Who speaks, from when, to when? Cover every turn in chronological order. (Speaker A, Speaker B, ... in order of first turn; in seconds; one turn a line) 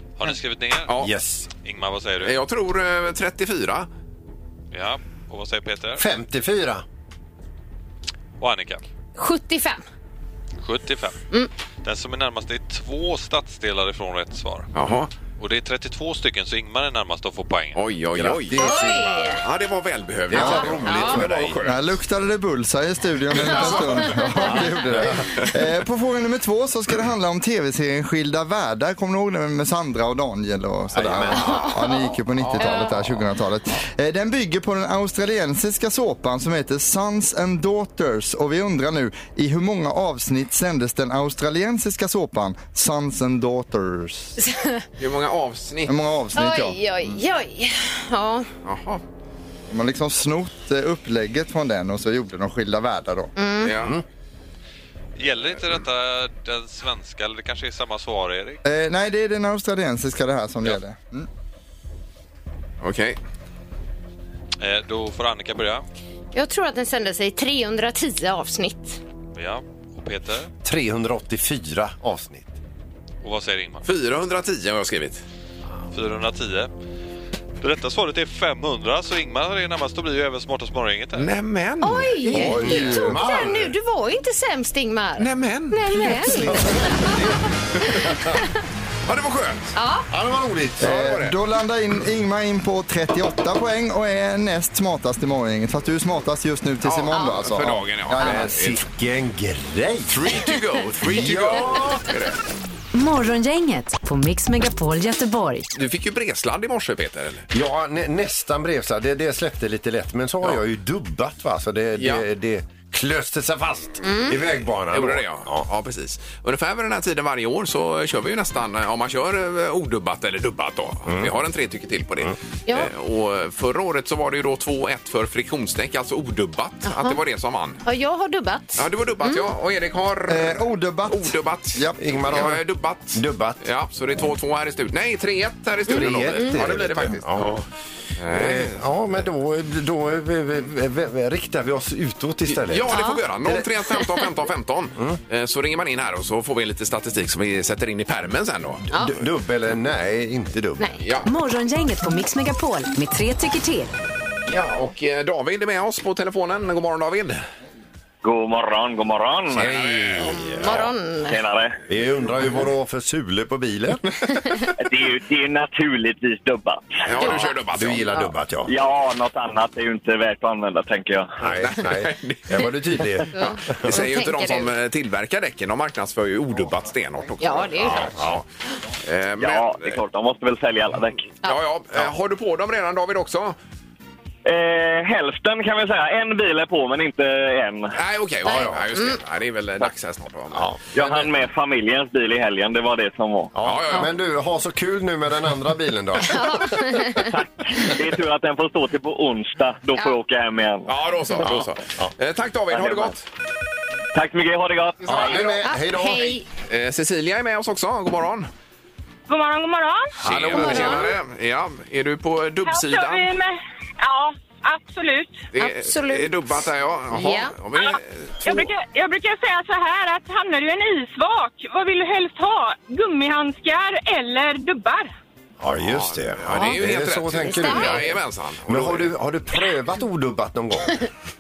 Speaker A: 0.2-1.0
Speaker B: 1.0-1.5
Speaker A: 1.6-2.4
Speaker C: 2.2-3.9
Speaker A: 4.7-6.0
Speaker B: 6.0-6.8
Speaker A: 8.4-8.8
Speaker D: 9.2-9.8
Speaker A: 10.6-11.2
Speaker A: 11.8-14.7
Speaker C: 14.7-15.1
Speaker A: 15.4-17.8
Speaker C: 17.7-21.9
Speaker B: 18.1-19.4
Speaker D: 18.6-19.4
Speaker B: 20.3-21.6
Speaker E: 20.3-20.7
Speaker D: 20.8-21.2
Speaker E: 21.6-44.4
Speaker D: 23.4-24.5
Speaker B: 24.3-25.3
Speaker B: 30.9-31.8
Speaker D: 31.4-32.9
Speaker C: 32.4-32.7
Speaker D: 44.4-44.8
Speaker C: 45.0-45.9
Speaker E: 45.9-46.8
Speaker D: 46.3-48.5
Speaker C: 48.6-49.0
Speaker E: 49.7-53.3
Speaker D: 53.4-53.7
Speaker C: 53.6-54.0
Speaker B: 53.8-54.0
Speaker A: 55.2-58.6
Speaker E: 58.6-61.3
Speaker C: 62.8-63.2
Speaker A: 64.6-65.8
Speaker D: 66.3-69.0
Speaker A: 69.3-70.5
Speaker B: 70.6-72.5
Speaker A: 73.2-73.8
Speaker C: 73.8-75.2
Speaker A: 75.9-76.7
Speaker A: 77.6-81.3
Speaker C: 81.1-83.1
Speaker D: 81.8-87.2
Speaker B: 82.2-83.7
Speaker C: 85.2-85.8
Speaker B: 86.1-88.4
Speaker D: 87.8-88.2
Speaker C: 89.0-89.7
Speaker D: 89.7-90.1
Speaker B: 90.1-90.9
Speaker E: 90.8-98.5
Speaker C: 90.8-91.3
Speaker C: 96.8-98.8
Speaker B: 98.2-100.4
Speaker C: 100.1-102.4
Speaker B: 101.0-102.1
Speaker F: 102.9-105.7
Speaker C: 105.7-107.5
Speaker B: 107.5-115.7
Speaker C: 112.0-112.2
Speaker D: 114.0-114.3
Speaker C: 114.9-127.8
Speaker B: 121.1-121.3
Speaker D: 126.8-127.2
Speaker D: 127.8-129.4
Speaker C: 128.8-137.6
Speaker E: 130.3-132.0
Speaker B: 132.0-133.6
Speaker B: 135.9-137.6
Speaker D: 135.9-136.5
Speaker C: 138.2-138.8
Speaker B: 138.2-143.6
Speaker C: 142.5-148.8
Speaker D: 142.9-143.2
Speaker B: 148.9-150.9
Speaker C: 151.0-151.3
Speaker F: 151.2-153.9
Speaker C: 154.4-157.4
Speaker G: 158.2-159.7
Speaker C: 159.5-160.3
Speaker B: 159.6-160.9
Speaker D: 160.2-161.4
Speaker G: 161.3-161.8
Speaker B: 161.9-164.0
Speaker G: 164.8-167.0
Speaker C: 167.0-168.2
Speaker D: 167.2-167.5
Speaker B: 167.2-168.7
Speaker G: 168.7-171.4
Speaker B: 171.4-174.0
Speaker C: 171.6-172.7
Speaker D: 173.3-174.7
Speaker C: 173.4-178.4
Speaker D: 177.4-178.1
Speaker B: 177.8-178.4
Speaker C: 179.0-180.0
Speaker G: 179.4-181.2
Speaker C: 181.4-183.6
Speaker G: 184.4-187.9
Speaker C: 187.9-190.7
Speaker B: 188.4-188.8
Speaker D: 188.5-189.2
Speaker G: 190.9-193.5
Speaker B: 193.5-197.2
Speaker C: 193.6-194.1
Speaker D: 196.3-197.3
Speaker G: 197.2-200.9
Speaker C: 200.9-203.2
Speaker B: 201.4-202.1
Speaker G: 202.7-203.1
Speaker G: 204.1-205.4
Speaker C: 205.0-205.6
Speaker B: 205.1-206.3
Speaker D: 205.6-206.4
Speaker C: 206.6-208.5
Speaker H: 209.3-210.2
Speaker C: 210.2-213.3
Speaker B: 210.2-211.0
Speaker D: 210.5-211.1
Speaker H: 212.7-215.3
Speaker C: 215.5-218.7
Speaker D: 215.6-216.3
Speaker D: 217.1-217.5
Speaker H: 218.4-225.1
Speaker B: 225.6-231.1
Speaker C: 225.8-229.1
Speaker D: 226.5-226.8
Speaker D: 227.4-228.1